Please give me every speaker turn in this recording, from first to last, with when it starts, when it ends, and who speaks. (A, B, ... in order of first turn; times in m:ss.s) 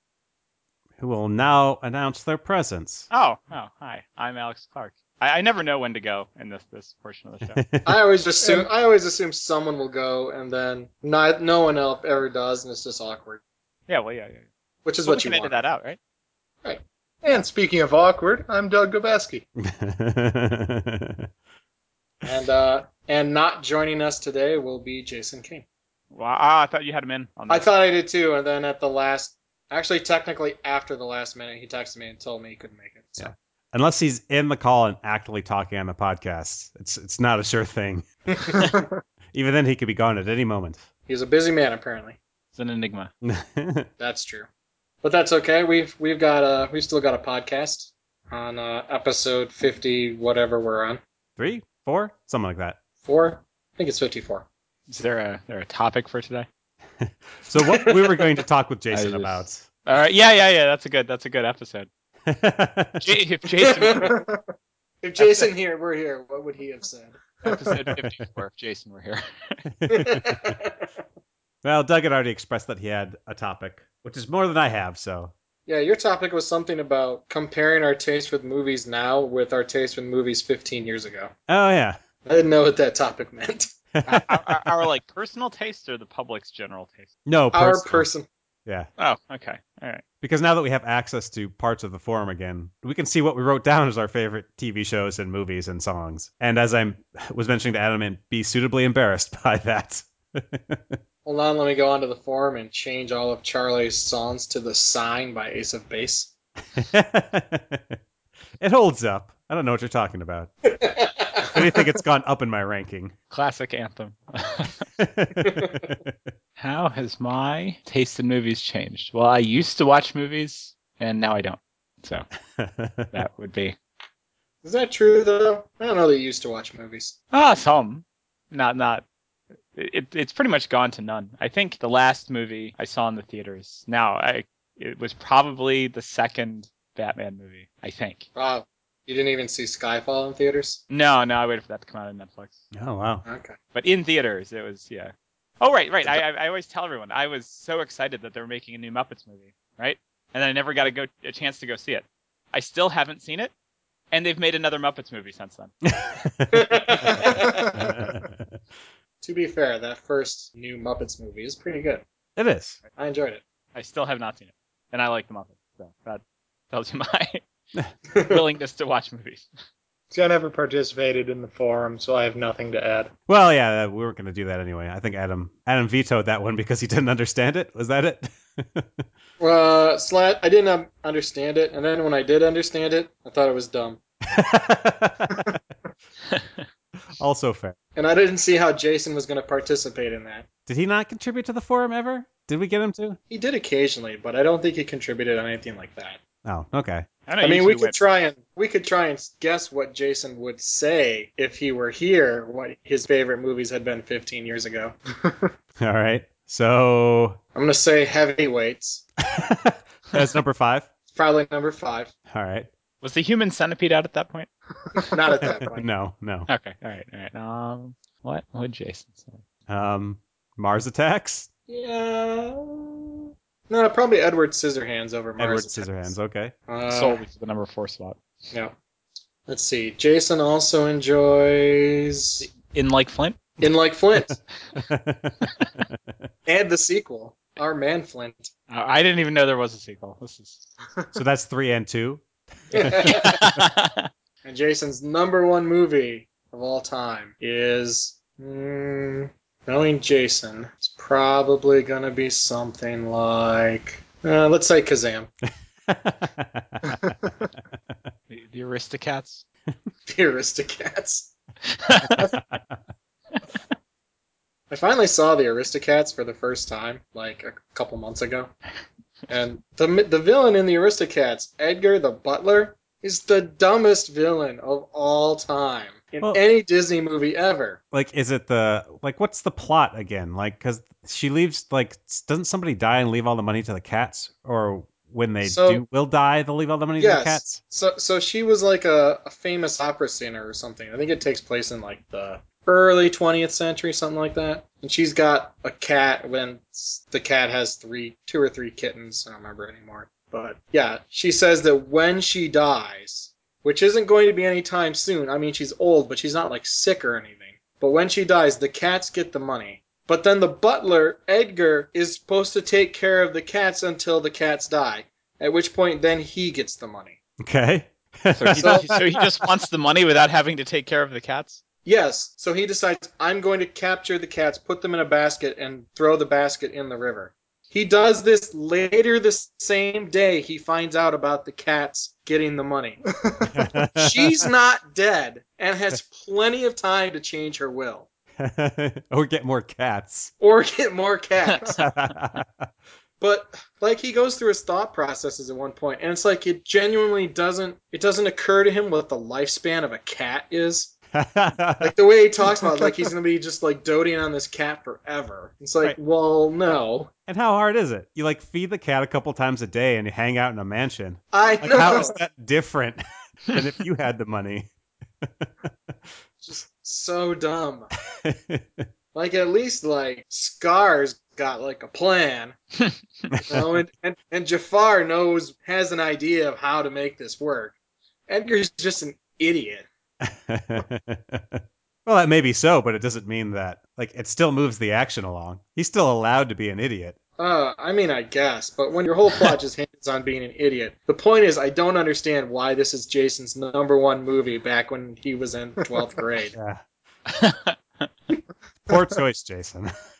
0:01.0-0:03.1 A
0:03.1-0:07.6 B
0:07.5-0:07.9 A
0:07.8-0:13.4 C
0:08.4-0:08.7 D
0:13.9-0:14.4 B
0:14.8-0:15.6 C
0:15.0-0:16.0 B
0:17.2-0:19.4 D
0:19.6-0:21.3 A
0:22.2-0:25.6 C
0:26.1-0:27.7 B
0:27.5-0:33.3 C
0:33.2-0:38.7 A
0:39.3-0:40.8 A
0:41.1-0:42.2 C
0:42.5-0:43.1 B
0:43.2-0:43.9 A
0:44.0-0:44.5 C
0:45.0-0:51.0 C
0:51.4-0:52.8 A
0:53.0-0:54.4 C
0:54.9-0:56.5 B
0:57.0-0:59.6 A
0:58.9-1:01.9 B
1:02.2-1:03.1 A
1:03.0-1:04.2 B
1:03.8-1:04.1 C
1:03.8-1:04.4 D
1:05.0-1:07.2 C
1:05.2-1:05.5 B
1:07.4-1:09.6 B
1:09.8-1:10.6 A
1:09.9-1:10.8 C
1:11.6-1:15.3 A
1:15.6-1:21.3 C
1:21.5-1:22.0 A
1:22.2-1:23.7 C
1:24.0-1:24.6 A
1:24.0-1:27.1 B
1:27.2-1:28.1 A
1:27.5-1:28.3 C
1:29.0-1:30.0 B
1:30.2-1:41.0 A
1:41.2-1:46.3 C
1:46.8-1:48.0 A
1:48.6-1:50.5 A
1:50.8-1:51.5 C
1:51.4-1:53.1 A
1:53.3-1:54.8 B
1:55.0-1:56.0 A
1:55.6-1:55.8 C
1:56.6-2:02.2 B
2:02.6-2:03.1 A
2:03.1-2:03.8 B
2:04.6-2:07.1 C
2:07.3-2:09.0 B
2:09.7-2:18.3 B
2:18.3-2:20.8 C
2:20.9-2:22.6 B
2:22.7-2:23.2 A
2:23.2-2:23.6 C
2:23.7-2:33.5 B
2:34.1-2:35.7 B
2:35.9-2:37.1 A
2:36.5-2:37.8 C
2:37.1-2:37.4 B
2:37.7-2:38.4 A
2:39.2-2:42.0 C
2:42.4-2:42.8 A
2:43.0-2:43.4 C
2:43.7-2:47.4 B
2:48.1-2:48.4 C
2:48.2-2:49.5 B
2:50.1-2:53.1 D
2:53.3-2:59.0 A
2:59.4-3:04.0 C
3:04.3-3:05.6 A
3:06.3-3:06.6 B
3:07.2-3:07.8 A
3:08.0-3:10.4 C
3:10.7-3:13.2 A
3:13.3-3:16.2 C
3:16.4-3:17.0 A
3:17.3-3:18.0 B
3:17.4-3:24.9 C
3:25.8-3:27.4 A
3:27.5-3:29.0 C
3:29.2-3:30.9 A
3:31.1-3:32.1 C
3:32.3-3:32.7 A
3:33.0-3:34.5 B
3:35.1-3:35.9 C
3:35.7-3:36.5 A
3:36.5-3:39.4 B
3:39.7-3:41.5 A
3:41.7-3:46.1 C
3:45.4-3:46.5 A
3:46.7-3:47.2 C
3:46.9-3:48.2 B
3:49.5-3:52.5 C
3:52.4-3:53.4 B
3:53.6-3:54.4 C
3:54.9-3:55.9 A
3:56.4-3:58.5 C
3:58.7-4:00.7 B
4:01.1-4:03.2 A
4:02.7-4:03.4 C
4:02.8-4:04.1 B
4:04.4-4:15.3 C
4:15.9-4:17.1 A
4:18.3-4:19.4 B
4:20.1-4:21.3 C
4:21.7-4:22.3 B
4:22.2-4:22.8 A
4:24.7-4:28.5 C
4:29.3-4:37.8 C
4:37.9-4:47.6 A
4:45.4-4:45.8 C
4:47.0-5:17.2 C
5:17.4-5:19.5 A
5:18.3-5:21.6 B
5:18.6-5:18.9 C
5:21.8-5:33.0 C
5:33.2-5:33.7 D
5:33.5-5:34.4 A
5:33.9-5:38.1 C
5:38.4-5:40.3 A
5:40.4-5:41.8 C
5:41.8-5:42.7 A
5:43.2-5:50.9 C
5:51.1-5:51.9 A
5:51.8-5:57.1 C
5:57.3-6:04.7 A
6:01.3-6:02.2 C
6:05.2-6:05.5 A
6:06.4-6:07.9 C
6:08.2-6:08.9 A
6:09.1-6:12.6 C
6:13.3-6:13.6 A
6:13.4-6:17.7 C
6:18.3-6:19.8 C
6:20.2-6:27.2 A
6:27.4-6:36.5 C
6:36.5-6:36.8 A
6:37.3-6:38.1 B
6:38.9-6:39.9 A